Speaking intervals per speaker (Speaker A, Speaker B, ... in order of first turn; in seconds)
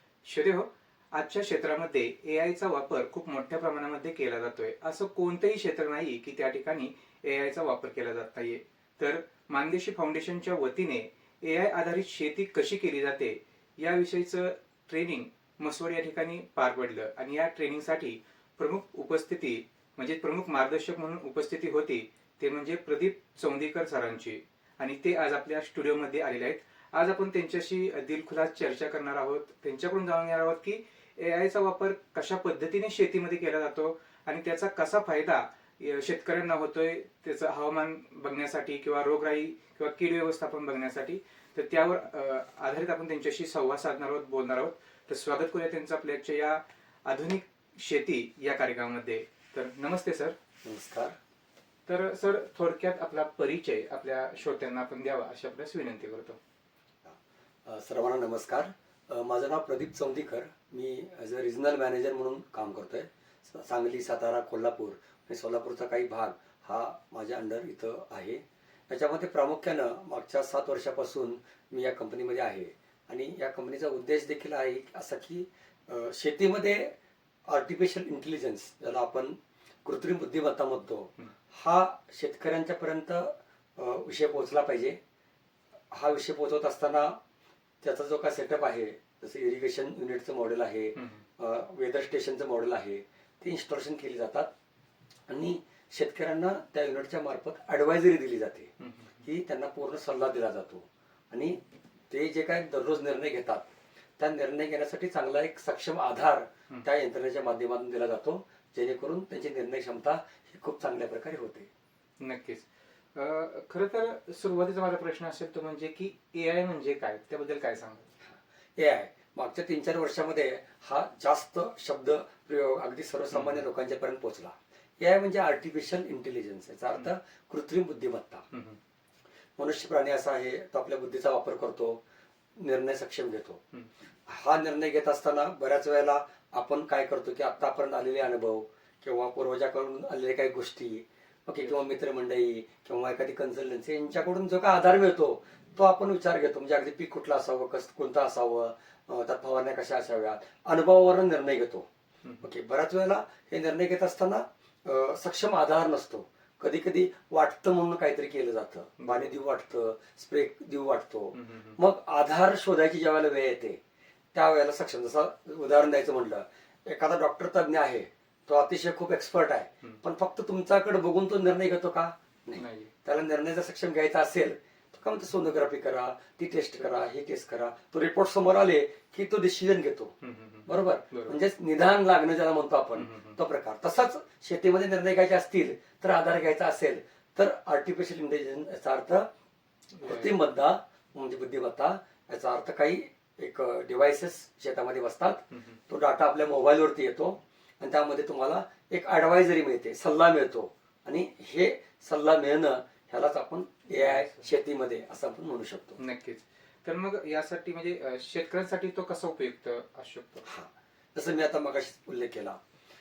Speaker A: 0.2-50.4, 51.9-56.4, 91.0-91.2, 98.8-99.2, 112.2-118.1, 123.3-123.6, 128.5-128.8, 141.6-141.9, 152.2-152.5, 159.0-159.4, 161.3-161.8, 172.6-172.9, 180.2-181.4, 182.9-183.4, 189.9-190.3, 195.5-195.8, 203.9-204.5, 206.0-210.5
Speaker B: 50.6-51.1, 57.0-85.0, 85.9-87.2, 87.8-94.5, 95.3-98.7, 99.2-103.7, 104.2-111.7, 118.3-128.4, 129.6-132.0, 132.6-133.6, 134.3-151.9, 152.4-163.8, 164.3-180.1, 180.7-189.3, 190.0-206.0, 210.4-212.6